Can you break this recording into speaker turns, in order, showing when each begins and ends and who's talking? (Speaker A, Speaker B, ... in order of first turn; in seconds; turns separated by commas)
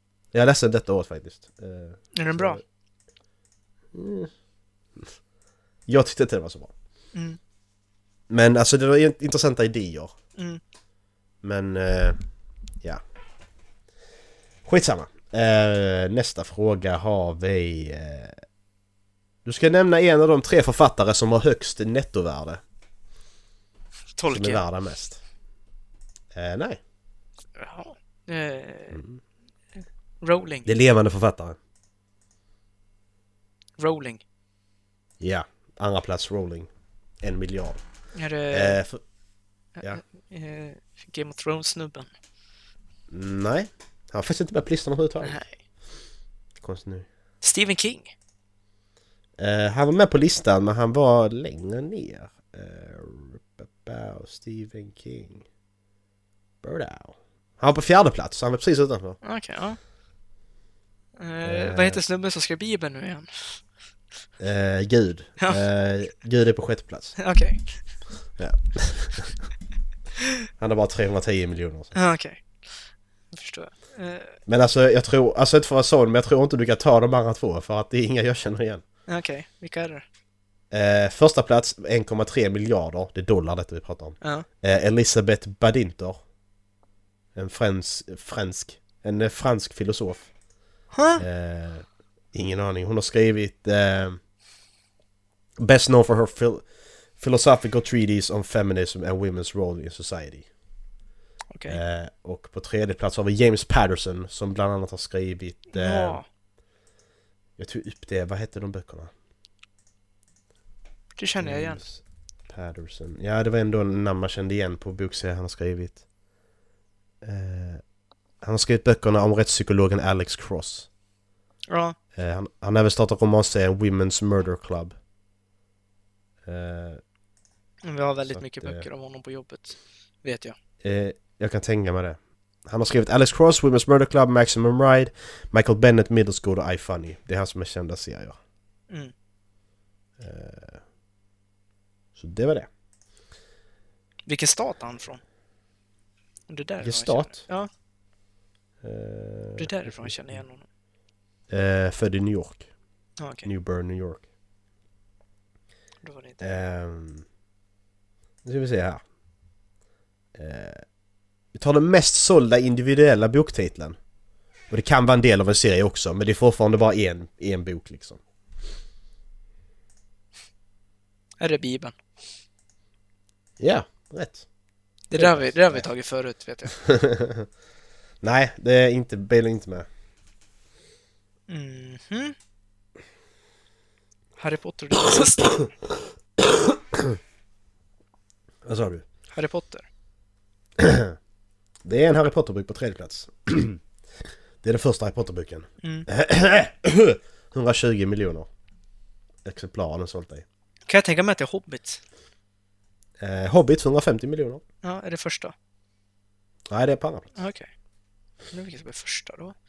Speaker A: 0.3-2.6, Speaker B: 2.1-2.6, Speaker A: 3.9-4.3, Speaker A: 5.9-6.7, Speaker B: 7.1-7.4, Speaker A: 8.3-10.2, Speaker A: 11.4-12.2, Speaker A: 14.7-18.4, Speaker A: 19.4-22.6, Speaker B: 24.2-24.6, Speaker A: 24.3-25.2, Speaker A: 26.3-26.8, Speaker B: 27.6-29.0, Speaker A: 28.9-29.2, Speaker B: 30.2-30.7, Speaker A: 30.6-31.6, Speaker B: 33.8-34.2, Speaker A: 35.2-36.7, Speaker A: 37.2-37.8, Speaker B: 38.1-38.8, Speaker A: 38.5-39.0, Speaker B: 39.8-42.1, Speaker A: 43.1-45.4, Speaker B: 45.2-45.5, Speaker A: 46.6-47.1, Speaker B: 47.4-48.1, Speaker A: 49.4-55.5, Speaker A: 56.6-59.2, Speaker B: 59.2-59.8, Speaker B: 61.2-63.6, Speaker A: 61.4-62.0, Speaker A: 64.4-67.2, Speaker B: 67.2-67.7, Speaker A: 68.4-69.3, Speaker A: 70.6-72.0, Speaker B: 71.9-74.4, Speaker A: 74.5-78.8, Speaker B: 79.1-80.0, Speaker A: 80.7-86.2, Speaker A: 87.3-90.3, Speaker B: 90.9-91.2, Speaker A: 91.2-94.2, Speaker A: 95.6-96.7, Speaker A: 97.2-100.5, Speaker B: 101.5-101.8, Speaker A: 101.7-106.2, Speaker B: 105.7-106.3, Speaker A: 107.6-109.1, Speaker B: 111.2-111.8, Speaker A: 111.4-116.0, Speaker A: 117.2-117.8, Speaker A: 118.4-120.9, Speaker B: 121.7-122.0, Speaker A: 122.2-124.9, Speaker A: 126.4-127.0, Speaker B: 127.8-130.6, Speaker A: 128.3-128.9, Speaker A: 130.8-138.4, Speaker A: 140.2-140.8, Speaker A: 142.2-142.7, Speaker B: 144.3-145.2, Speaker B: 146.5-147.7, Speaker A: 146.8-147.5, Speaker A: 148.8-150.4, Speaker B: 149.6-150.7, Speaker A: 151.5-152.7, Speaker B: 153.2-153.5, Speaker A: 153.4-154.2, Speaker B: 156.0-156.4, Speaker A: 156.4-157.2, Speaker A: 158.4-159.0, Speaker A: 160.3-160.8, Speaker A: 161.5-164.0, Speaker A: 164.7-168.2, Speaker B: 171.4-171.9, Speaker A: 173.6-174.5, Speaker B: 175.1-176.8, Speaker A: 175.1-175.9, Speaker A: 176.8-177.5, Speaker A: 178.2-179.9, Speaker B: 181.5-182.3, Speaker B: 184.4-185.7, Speaker A: 186.4-187.2, Speaker A: 188.7-189.1, Speaker B: 189.3-189.9, Speaker A: 190.8-191.2, Speaker A: 191.8-193.8, Speaker A: 194.6-198.5, Speaker A: 199.4-200.4, Speaker B: 200.9-202.0, Speaker A: 203.2-204.6, Speaker B: 204.8-205.5, Speaker A: 206.7-207.4, Speaker B: 207.4-207.7, Speaker B: 208.5-209.6